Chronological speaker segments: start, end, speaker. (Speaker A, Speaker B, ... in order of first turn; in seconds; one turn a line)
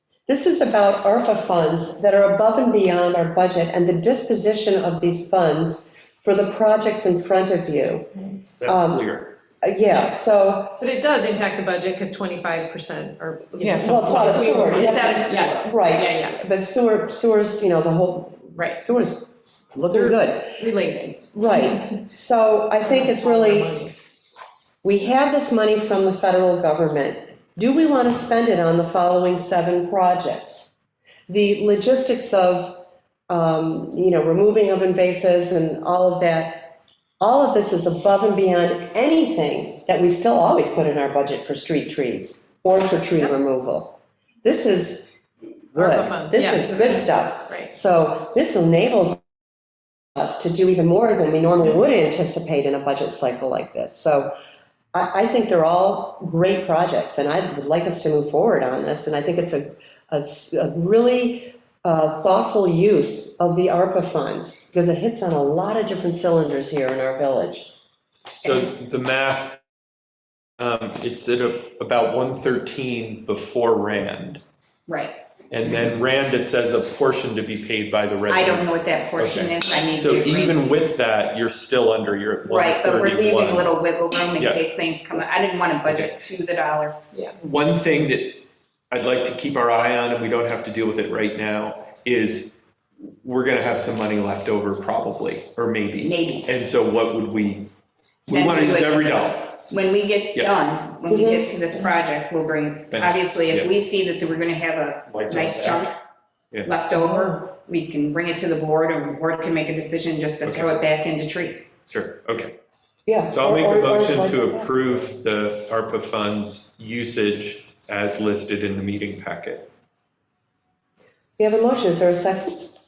Speaker A: 0.3-8.1
Speaker B: 8.6-9.3
Speaker A: 8.7-9.0
Speaker A: 9.6-10.8
Speaker C: 10.8-16.4
Speaker A: 13.7-23.9
Speaker D: 14.2-15.7
Speaker C: 19.9-21.2
Speaker C: 22.9-23.9
Speaker A: 24.8-30.8
Speaker A: 31.3-45.2
Speaker A: 45.7-49.2
Speaker C: 45.8-46.8
Speaker A: 50.1-54.3
Speaker A: 54.9-67.7
Speaker B: 68.3-69.6
Speaker D: 68.4-68.7
Speaker B: 70.6-74.4
Speaker D: 74.9-75.2
Speaker B: 75.5-83.7
Speaker D: 78.3-80.6
Speaker D: 82.4-87.0
Speaker B: 84.4-84.6
Speaker B: 85.9-86.1
Speaker B: 87.4-97.7
Speaker D: 96.0-96.5
Speaker B: 98.3-99.6
Speaker D: 98.3-106.0
Speaker A: 101.1-101.5
Speaker B: 102.9-103.7
Speaker B: 105.1-105.8
Speaker D: 106.6-111.7
Speaker A: 106.9-107.4
Speaker B: 110.4-110.8
Speaker B: 111.9-112.5
Speaker A: 113.0-114.9
Speaker B: 113.3-119.7
Speaker A: 121.4-122.6